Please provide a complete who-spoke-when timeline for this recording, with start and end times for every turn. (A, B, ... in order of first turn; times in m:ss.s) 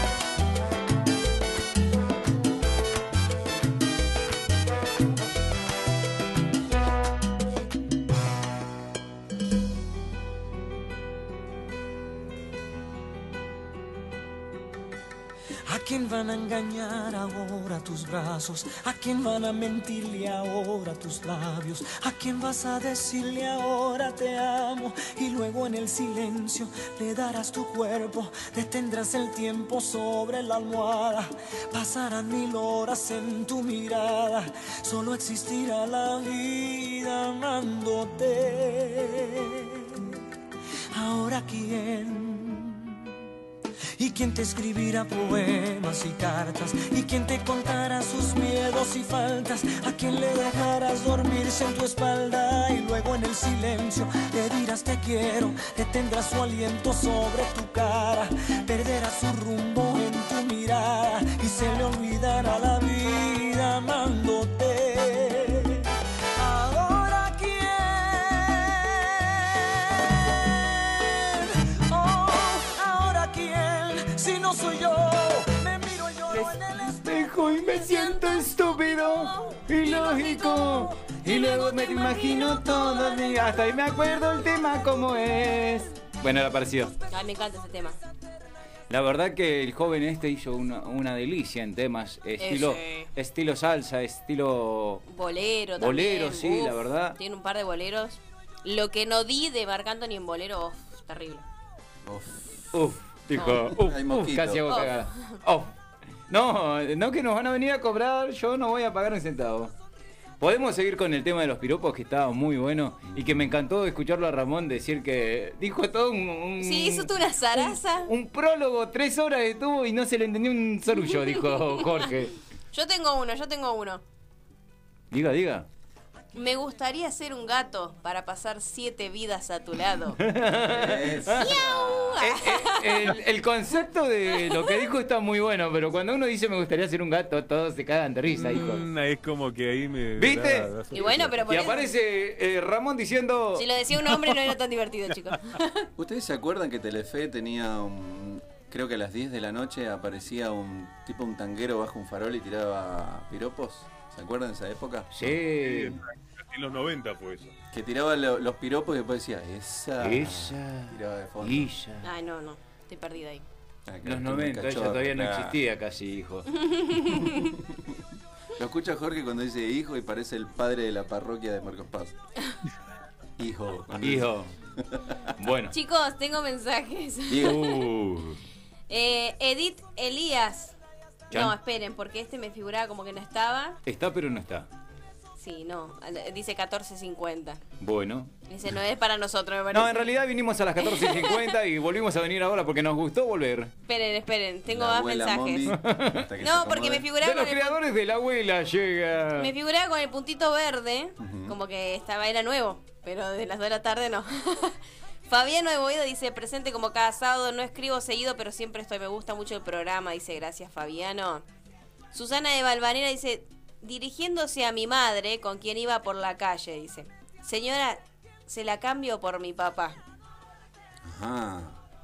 0:15.7-0:40.2 A
0:40.9-0:42.9 A
0:44.0-1:17.3 A
1:16.3-1:26.9 B
1:17.7-1:23.0 C
1:27.1-1:28.0 C
1:28.9-1:35.0 B
1:32.4-1:33.1 C
1:35.1-1:41.4 C
1:35.8-1:37.2 B
1:42.0-1:42.6 D
1:42.7-1:45.7 B
1:43.3-1:43.7 C
1:43.8-1:44.9 D
1:44.7-1:45.4 C
1:46.3-1:49.7 B
1:50.4-2:02.3 B
1:53.1-1:53.5 D
1:56.6-1:58.1 C
2:02.7-2:04.0 C
2:05.1-2:05.7 B
2:06.3-2:10.2 C
2:10.2-2:11.5 B
2:10.6-2:12.2 D
2:11.3-2:13.2 C
2:12.2-2:18.8 B
2:14.4-2:14.7 C
2:18.4-2:21.6 E
2:20.2-2:20.7 B
2:20.9-2:21.9 C
2:21.5-2:23.6 B
2:23.6-2:25.9 C
2:26.0-2:35.1 D
2:35.1-2:36.0 B
2:35.6-2:37.5 E
2:37.7-2:41.7 D
2:40.0-2:42.1 B
2:42.0-2:43.4 C
2:43.9-2:45.6 D
2:44.0-2:46.5 B
2:46.5-2:47.5 C
2:47.1-2:47.8 D
2:48.6-2:52.1 D
2:53.4-2:54.3 D
2:54.0-2:54.5 B
2:54.8-2:55.1 D
2:55.4-2:55.7 B
2:55.7-2:57.7 C
2:57.3-2:57.6 D
2:57.4-2:58.4 B
2:58.9-3:00.7 C
3:01.3-3:03.8 C
3:03.8-3:04.7 B
3:05.4-3:07.6 C
3:07.8-3:08.3 B
3:08.5-3:10.1 C
3:09.7-3:13.7 B
3:10.8-3:11.5 C
3:13.9-3:15.7 C
3:14.7-3:17.0 D
3:15.7-3:16.3 B
3:16.4-3:17.8 C
3:17.2-3:19.5 B
3:19.4-3:24.8 C
3:21.2-3:21.5 D
3:25.3-3:31.4 C
3:32.1-3:40.0 C
3:41.0-3:41.7 D